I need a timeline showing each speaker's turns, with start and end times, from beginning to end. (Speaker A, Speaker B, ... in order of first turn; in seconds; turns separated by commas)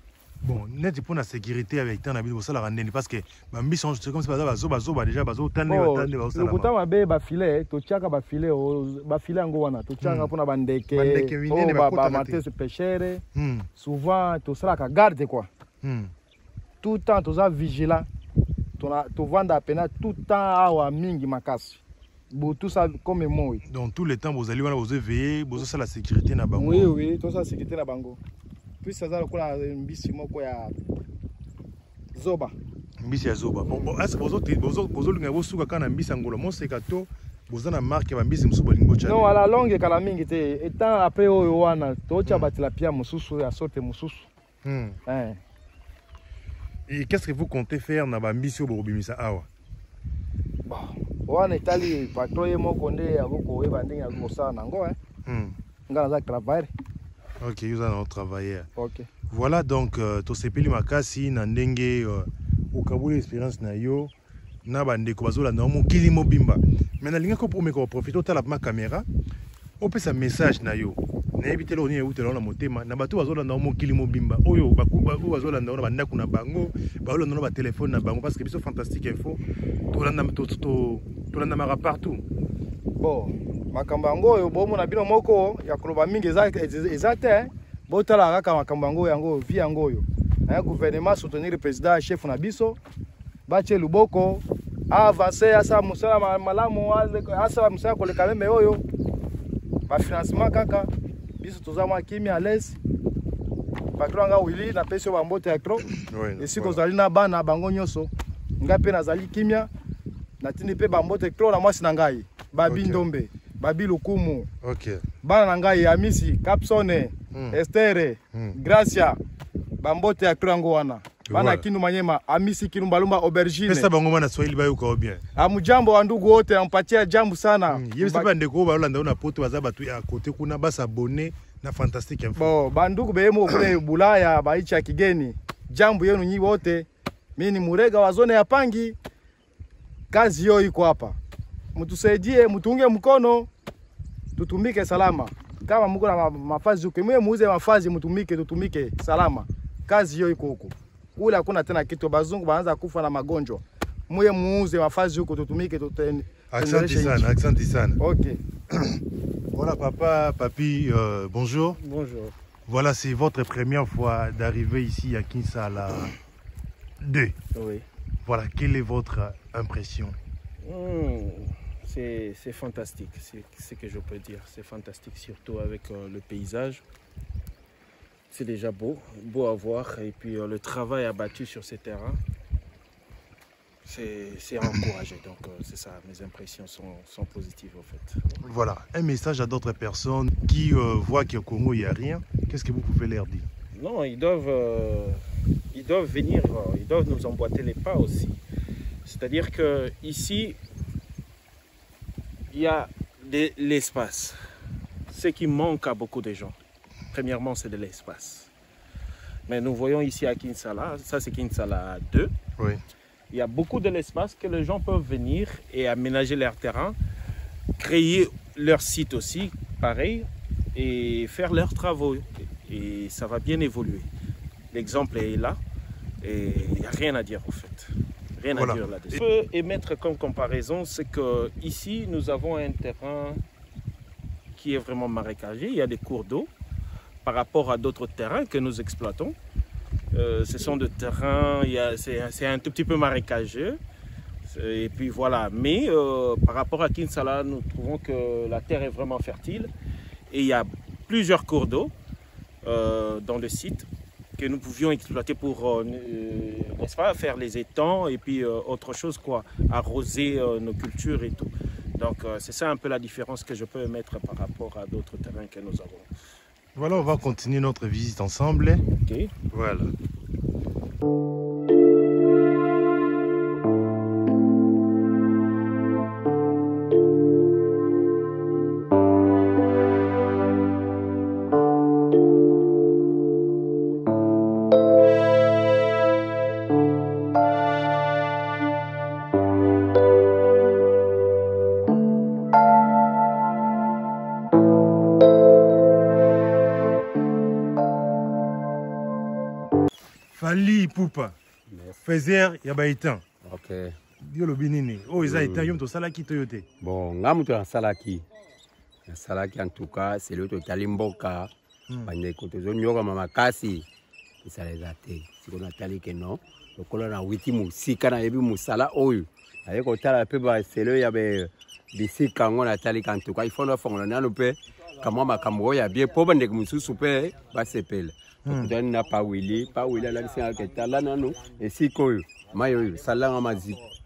Speaker A: 0.4-6.7, Speaker B: 5.7-13.2, Speaker A: 10.0-10.3, Speaker A: 10.9-12.4, Speaker A: 13.3-13.7, Speaker B: 13.8-15.5, Speaker A: 15.8-16.1, Speaker B: 16.8-18.1, Speaker B: 18.8-23.6, Speaker A: 23.6-26.9, Speaker B: 26.6-28.2, Speaker B: 28.8-30.8, Speaker B: 32.1-32.5, Speaker A: 33.0-39.3, Speaker B: 33.6-34.0, Speaker B: 39.0-44.3, Speaker A: 42.2-42.5, Speaker A: 44.6-45.0, Speaker B: 45.1-45.4, Speaker A: 46.9-49.5, Speaker B: 50.6-55.0, Speaker A: 55.3-55.6, Speaker B: 55.9-56.7, Speaker A: 57.4-58.7, Speaker B: 58.8-59.1, Speaker A: 59.3-64.1, Speaker A: 64.7-69.1, Speaker A: 69.8-82.2, Speaker B: 83.0-92.8, Speaker B: 93.5-98.8, Speaker B: 99.9-102.8, Speaker B: 104.0-109.7, Speaker A: 105.9-106.8, Speaker B: 110.4-114.5, Speaker A: 112.7-113.1, Speaker A: 114.6-115.0, Speaker B: 115.2-119.2, Speaker A: 117.3-117.6, Speaker B: 119.8-123.9, Speaker A: 121.2-121.7, Speaker A: 123.7-125.2, Speaker B: 125.4-128.3, Speaker A: 127.7-132.5, Speaker B: 132.4-139.0, Speaker B: 140.1-141.2, Speaker B: 141.8-143.5, Speaker B: 144.4-157.3, Speaker A: 156.5-158.0, Speaker B: 158.0-158.4, Speaker A: 158.7-159.0, Speaker A: 159.5-161.8, Speaker C: 161.8-162.3, Speaker A: 162.7-166.2, Speaker A: 167.0-167.3, Speaker C: 167.5-167.9, Speaker A: 168.2-170.2, Speaker C: 170.6-176.8, Speaker C: 178.3-182.2, Speaker C: 183.8-188.3, Speaker A: 188.4-193.5, Speaker C: 193.8-198.4, Speaker C: 199.1-200.6, Speaker C: 202.5-204.4, Speaker C: 205.1-206.6, Speaker C: 207.1-208.5, Speaker C: 209.5-212.3, Speaker C: 213.3-217.0, Speaker C: 217.8-224.1, Speaker C: 224.7-225.6, Speaker C: 226.2-233.4, Speaker A: 228.5-229.2, Speaker C: 234.5-236.5, Speaker C: 237.2-239.4, Speaker C: 240.1-243.8, Speaker C: 244.4-249.7, Speaker C: 250.3-251.9, Speaker C: 252.6-266.1, Speaker A: 266.8-268.9, Speaker C: 269.0-269.3, Speaker A: 269.5-269.9, Speaker A: 300.3-301.4, Speaker D: 301.7-302.0, Speaker A: 302.0-303.2, Speaker D: 303.4-304.0, Speaker A: 304.2-306.7, Speaker D: 305.2-305.8, Speaker D: 306.8-308.3, Speaker D: 309.1-311.5, Speaker D: 312.1-313.9, Speaker D: 314.4-333.9, Speaker A: 328.5-328.8